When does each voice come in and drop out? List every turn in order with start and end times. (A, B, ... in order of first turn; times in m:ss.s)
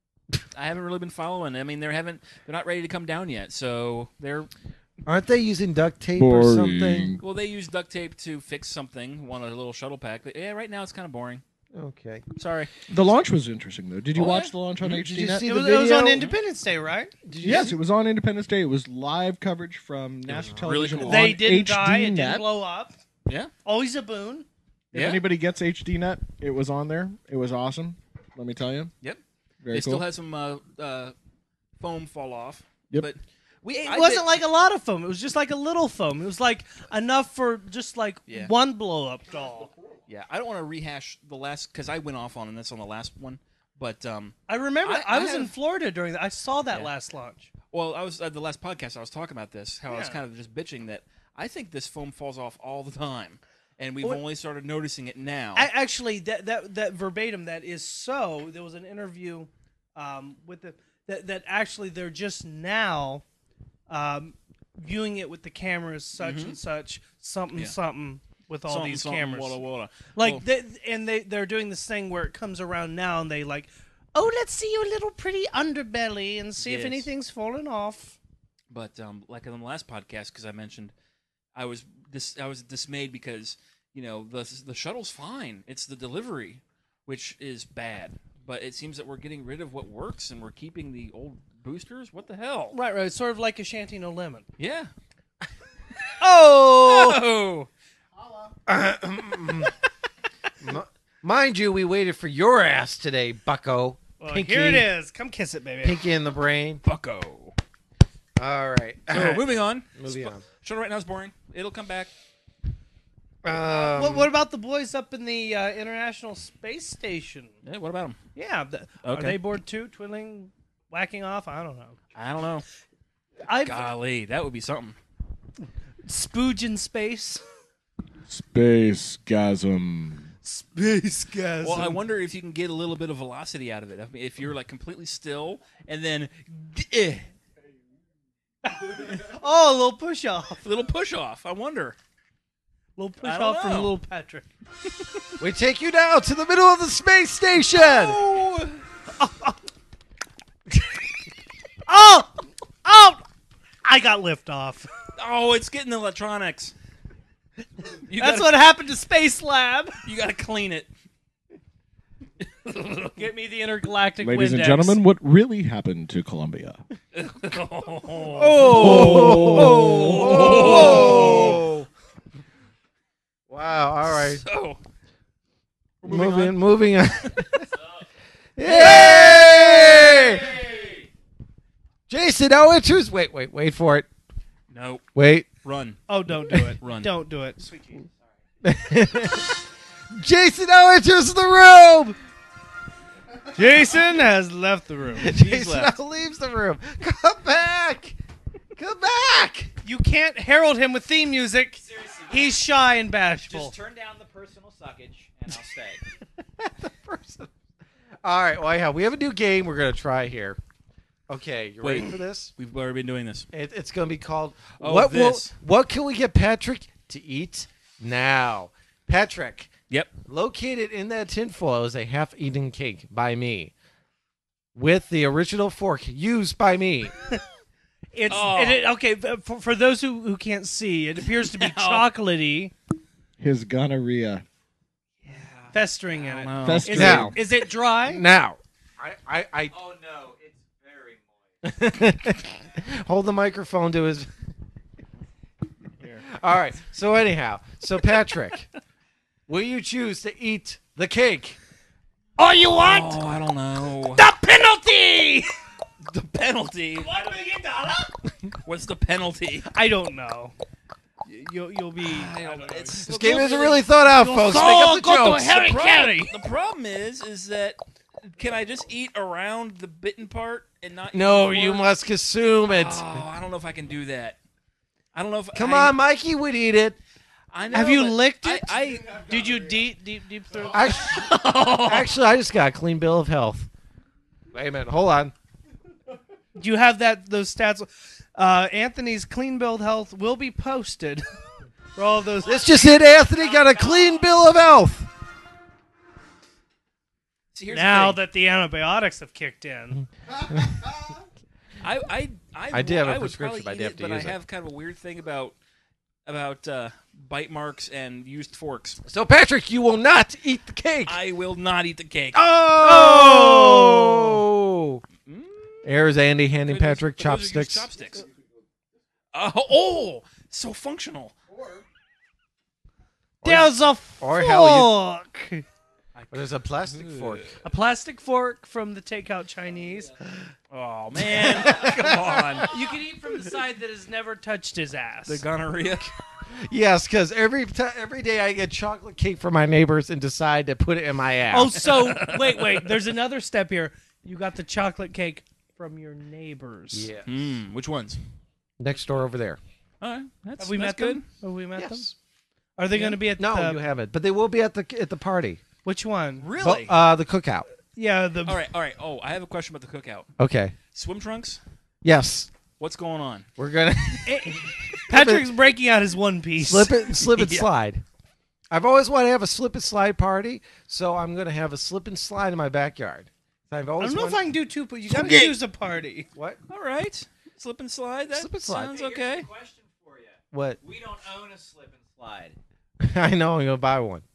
0:00.5-0:04.5 A
0:05.0-0:07.2 B
0:06.2-0:07.2 C
0:07.2-0:11.4 A
0:11.7-0:12.2 B
0:12.4-0:12.7 A
0:12.9-0:15.5 C
0:14.1-0:15.1 A
0:15.0-0:16.2 B
0:15.4-0:17.1 D
0:17.2-0:17.8 B
0:17.4-0:22.5 C
0:20.3-0:21.4 A
0:21.0-0:22.9 D
0:23.2-0:23.5 A
0:23.6-0:24.4 D
0:24.9-0:28.9 C
0:24.9-0:25.2 A
0:29.0-0:31.1 A
0:29.6-0:30.0 C
0:31.8-0:34.3 A
0:33.8-0:39.7 D
0:40.1-0:45.5 A
0:44.5-0:47.5 D
0:47.7-0:55.7 A
0:49.9-0:50.2 D
0:55.5-1:03.2 D
1:03.9-1:09.6 D
1:06.2-1:06.6 A
1:08.7-1:10.4 A
1:10.2-1:18.2 D
1:16.6-1:17.1 A
1:18.7-1:20.9 A
1:21.5-1:32.8 A
1:32.7-1:34.4 D
1:34.6-1:34.9 A
1:36.2-1:37.2 D
1:36.8-1:37.7 A
1:38.6-1:39.7 B
1:40.6-1:44.9 B
1:44.2-1:46.0 D
1:45.8-1:46.8 B
1:46.8-1:47.6 A
1:48.4-1:50.4 B
1:49.1-1:52.1 A
1:53.4-1:54.3 B
1:53.6-1:57.5 D
1:57.6-1:58.2 A
1:58.3-2:02.0 D
1:59.0-1:59.4 A
2:02.1-2:02.6 A
2:03.4-2:03.9 D
2:03.6-2:05.0 A
2:06.0-2:07.4 D
2:08.3-2:10.3 C
2:10.4-2:12.0 D
2:11.6-2:17.2 A
2:18.6-2:20.6 D
2:20.6-2:22.0 A
2:23.0-2:24.5 D
2:23.2-2:23.9 A
2:25.4-2:28.2 B
2:27.7-2:28.8 A
2:29.2-2:29.6 D
2:31.9-2:33.2 D
2:33.8-2:34.9 D
2:35.2-2:36.7 A
2:38.1-2:38.6 A
2:38.2-2:40.0 D
2:40.0-2:40.9 A
2:42.4-2:43.2 A
2:43.1-2:45.0 D
2:44.2-2:46.8 C
2:47.1-2:51.6 A
2:48.3-2:51.9 B
2:48.6-2:51.0 C
2:53.5-2:54.4 B
2:54.0-2:54.8 A
2:56.0-2:56.6 A
2:56.0-2:57.7 B
2:58.6-3:00.6 B
2:58.7-2:59.4 D
2:58.7-3:01.0 A
3:02.1-3:04.1 B
3:04.7-3:05.0 A
3:05.1-3:05.5 B
3:05.6-3:06.0 A
3:06.1-3:08.0 D
3:06.8-3:07.1 A
3:08.6-3:09.6 B
3:10.1-3:12.2 B
3:13.5-3:15.3 D
3:15.2-3:18.2 B
3:15.3-3:15.9 A
3:18.8-3:19.7 B
3:19.8-3:23.7 D
3:21.9-3:22.4 E
3:23.5-3:26.0 E
3:26.6-3:27.5 B
3:28.2-3:30.6 B
3:31.3-3:32.5 B
3:31.8-3:33.5 A
3:33.5-3:39.7 B
3:34.8-3:35.5 A
3:40.2-3:43.7 B
3:44.7-3:47.1 B
3:48.1-3:52.7 D
3:48.3-3:48.8 A
3:51.4-3:52.0 A
3:53.4-3:54.4 C
3:55.2-3:57.2 A
3:55.7-3:58.2 D
3:56.6-3:57.4 C
3:56.9-3:57.4 B
3:58.0-3:59.7 B
3:59.7-4:01.6 E
4:01.6-4:04.3 B
4:06.0-4:06.2 A
4:06.3-4:08.7 B
4:09.5-4:11.6 B
4:12.4-4:13.2 D
4:12.7-4:14.2 A
4:14.1-4:15.5 D
4:16.0-4:17.1 A
4:16.9-4:18.2 D
4:18.6-4:19.7 A
4:19.7-4:20.5 D
4:21.2-4:23.0 D
4:22.0-4:23.9 A
4:23.0-4:25.5 B
4:24.1-4:26.3 D
4:25.4-4:31.9 A
4:31.1-4:33.2 B
4:32.6-4:34.4 A
4:35.1-4:36.0 A
4:35.5-4:37.0 B
4:37.5-4:39.2 A
4:37.7-4:41.0 D
4:40.7-4:43.7 B
4:41.0-4:42.1 A
4:44.5-4:45.3 B
4:46.6-4:51.2 D
4:51.9-4:52.7 D
4:52.4-4:55.1 B
4:53.2-4:54.2 E
4:57.5-4:58.2 A
4:57.7-5:00.0 D
5:01.8-5:05.6 A
5:02.7-5:04.4 B
5:06.2-5:09.0 A
5:09.0-5:11.2 B
5:11.0-5:13.0 A
5:12.3-5:15.0 B
5:12.8-5:14.3 D
5:15.2-5:15.9 A
5:15.8-5:17.9 B
5:16.6-5:18.3 A
5:19.3-5:21.3 A
5:23.4-5:25.0 B
5:23.4-5:25.6 D
5:26.2-5:27.6 A
5:26.3-5:27.5 B
5:27.6-5:30.1 D
5:30.7-5:32.7 A
5:31.2-5:32.6 B
5:32.6-5:35.4 D
5:35.2-5:36.1 A
5:36.5-5:41.8 B
5:41.5-5:47.1 D
5:41.8-5:42.9 A
5:46.9-5:47.6 B
5:47.2-5:48.2 A
5:48.8-5:49.6 B
5:50.0-5:51.2 A
5:50.6-5:52.1 D
5:51.8-5:52.1 B
5:52.8-5:53.8 D
5:53.4-5:55.6 B
5:55.8-5:56.5 D
5:56.4-5:56.9 A
5:56.6-5:57.7 B
5:57.9-5:58.6 D
5:58.4-6:00.3 A
6:00.4-6:00.8 B
6:00.9-6:01.6 A
6:02.0-6:02.5 B
6:02.8-6:03.5 A
6:03.6-6:05.5 B
6:04.2-6:07.0 D
6:06.6-6:08.0 B
6:07.2-6:07.7 A
6:08.7-6:14.5 B
6:14.0-6:16.3 D
6:15.1-6:15.5 A
6:16.3-6:16.6 B
6:16.7-6:19.5 A
6:18.3-6:18.9 B
6:18.8-6:22.6 E
6:20.5-6:20.8 B
6:23.0-6:24.2 B